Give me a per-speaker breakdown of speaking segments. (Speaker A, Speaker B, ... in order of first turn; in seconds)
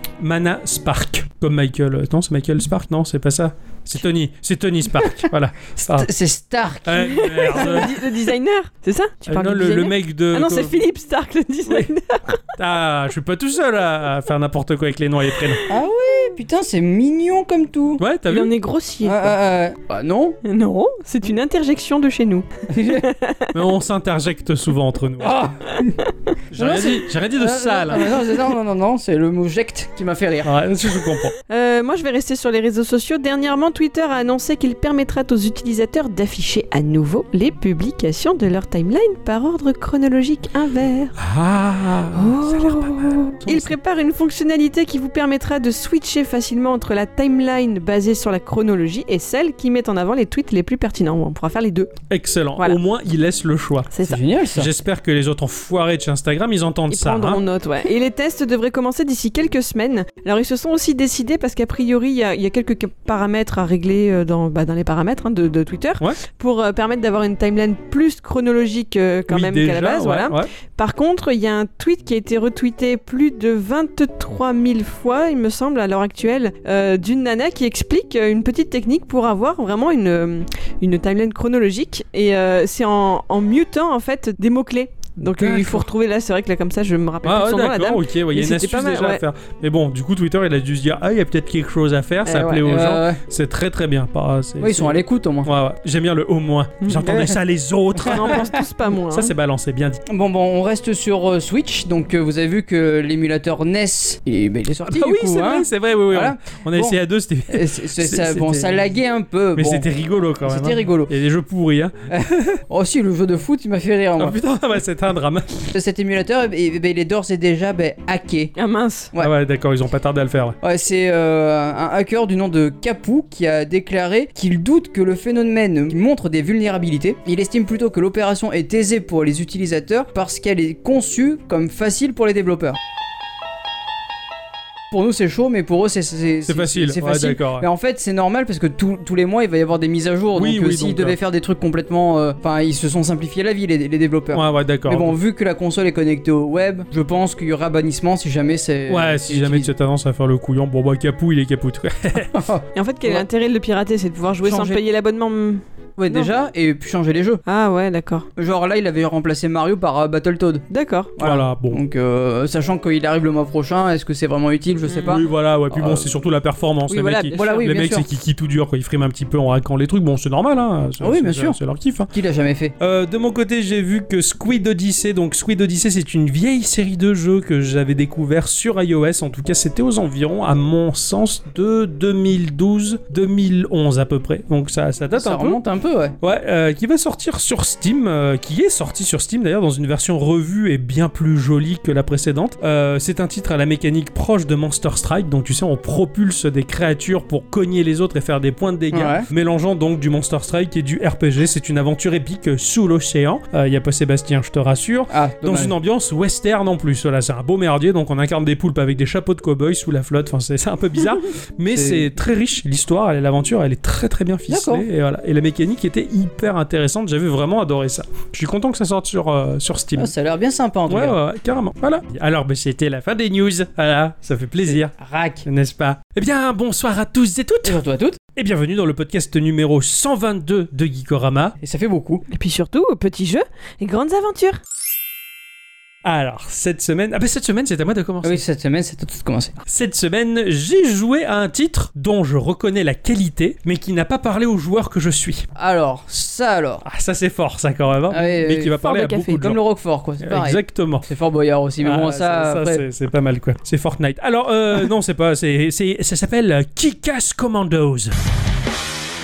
Speaker A: 0.2-6.1, 6.9-8.0, 9.3-10.8, 12.6-15.6, 18.0-18.5, 23.5-25.5, 26.5-28.2, 30.4-31.3, 41.2-43.8, 52.1-53.9, 54.5-57.4, 69.3-70.5, 85.2-85.9, 87.2-98.6, 99.1-100.0, 104.8-108.8, 109.6-112.4, 114.2-115.7, 119.2-120.6, 136.5-137.7, 140.4-141.2, 144.3-145.2, 148.9-152.3, 161.2-161.8, 165.0-172.1, 172.8-185.6, 186.2-220.1, 220.9-224.9, 225.4-227.8, 228.4-231.6, 236.1-238.4, 239.7-245.5, 246.8-249.6, 250.2-251.1, 251.8-258.2
Speaker B: 5.8-7.8, 15.7-18.0, 19.0-20.4, 22.7-23.1, 25.2-26.0, 26.6-30.6, 54.1-54.7, 92.7-93.2, 94.6-95.5, 96.9-97.4, 100.1-107.0, 107.5-109.9, 110.4-111.1, 112.1-114.4, 115.7-118.5, 120.6-132.8, 134.9-149.7, 152.3-153.2, 154.4-154.8, 156.0-157.4, 158.4-160.7, 161.2-166.1, 167.3-168.1, 171.0-171.6, 172.1-172.7, 185.2-186.2, 198.9-199.3, 205.1-205.7, 211.7-212.1, 214.5-214.8, 220.0-221.2, 224.7-225.5, 227.7-228.2, 231.6-232.2, 238.2-239.6, 245.6-246.8, 248.1-248.8, 249.4-252.8
Speaker C: 7.1-12.4, 18.3-19.3, 20.4-23.5, 31.5-41.2, 42.1-51.9, 53.9-54.2, 56.9-89.2, 92.3-92.7, 98.0-99.3, 118.6-119.1, 152.8-156.3, 157.5-158.3, 160.7-161.1, 164.9-165.2, 166.9-167.6, 232.3-234.6, 248.7-249.5